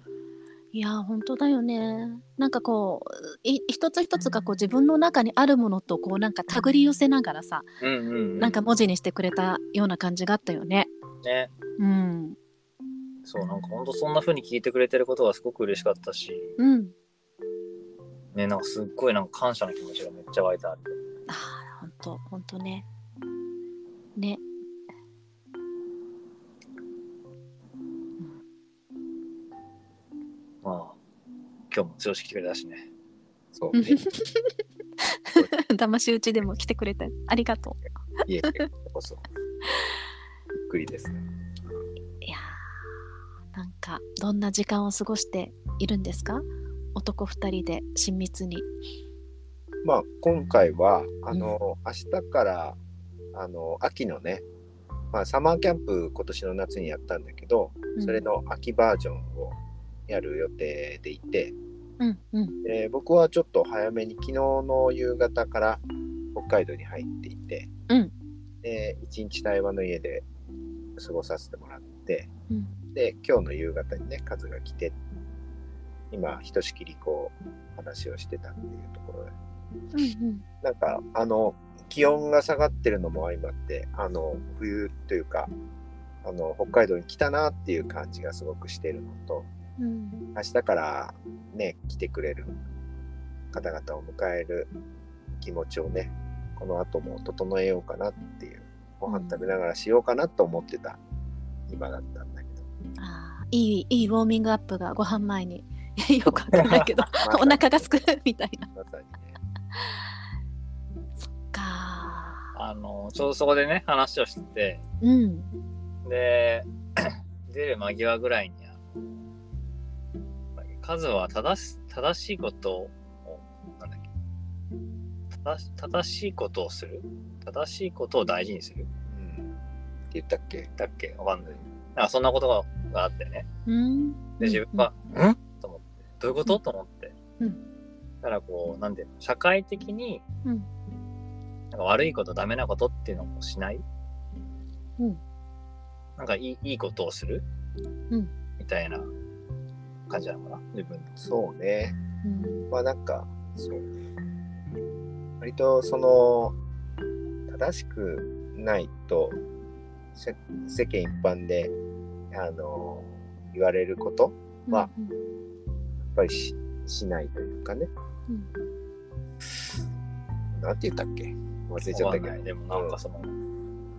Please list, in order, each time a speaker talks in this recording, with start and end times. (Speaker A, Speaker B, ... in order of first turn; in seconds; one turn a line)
Speaker A: 0.7-7.7
Speaker B: 7.8-8.6
Speaker A: 8.4-10.9
Speaker B: 11.2-11.5
Speaker A: 11.8-12.4
Speaker B: 13.2-16.6
Speaker A: 16.6-16.9
Speaker B: 18.3-21.0
Speaker A: 21.3-22.9
Speaker A: 24.2-24.4
Speaker B: 30.6-31.0
Speaker B: 31.7-32.9
Speaker C: 33.5-34.0
Speaker A: 33.7-34.5
Speaker A: 35.1-37.8
Speaker C: 38.2-39.2
Speaker C: 40.5-41.2
Speaker A: 42.2-42.6
Speaker A: 43.5-48.7
Speaker C: 49.8-52.8
Speaker C: 53.3-54.4
Speaker C: 55.1-61.5
Speaker A: 58.0-58.2
Speaker A: 62.0-62.6
Speaker C: 62.6-65.8
Speaker C: 66.3-67.7
Speaker C: 68.6-70.2
Speaker C: 71.0-72.3
Speaker C: 72.9-75.0
Speaker C: 76.1-79.3
Speaker A: 79.9-80.4
Speaker C: 80.6-85.5
Speaker C: 86.2-89.5
Speaker A: 89.8-90.2
Speaker C: 90.3-92.6
Speaker C: 93.5-94.7
Speaker C: 95.4-101.0
Speaker A: 99.1-99.4
Speaker C: 101.7-102.6
Speaker A: 103.0-108.7
Speaker C: 107.2-108.0
Speaker C: 108.7-109.4
Speaker A: 111.4-112.5
Speaker B: 112.5-114.8
Speaker A: 115.0-115.5
Speaker B: 116.0-118.8
Speaker B: 120.6-124.0
Speaker B: 125.4-128.9
Speaker C: 129.1-129.5
Speaker C: 130.1-130.7
Speaker B: 130.8-133.4
Speaker A: 133.7-134.9
Speaker B: 134.4-137.1
Speaker B: 138.2-140.2
Speaker B: 141.7-143.8
Speaker B: 146.2-147.4
Speaker B: 148.6-149.1
Speaker B: 150.1-151.2
Speaker C: 151.2-152.0
Speaker A: 152.2-152.7
Speaker C: 152.7-153.9
Speaker C: 155.4-156.6
Speaker C: 157.5-159.4
Speaker C: 160.1-161.7
Speaker C: 162.3-164.9
Speaker A: 164.7-165.2
Speaker C: 166.1-167.9
Speaker C: 170.5-173.0
Speaker B: 171.9-173.3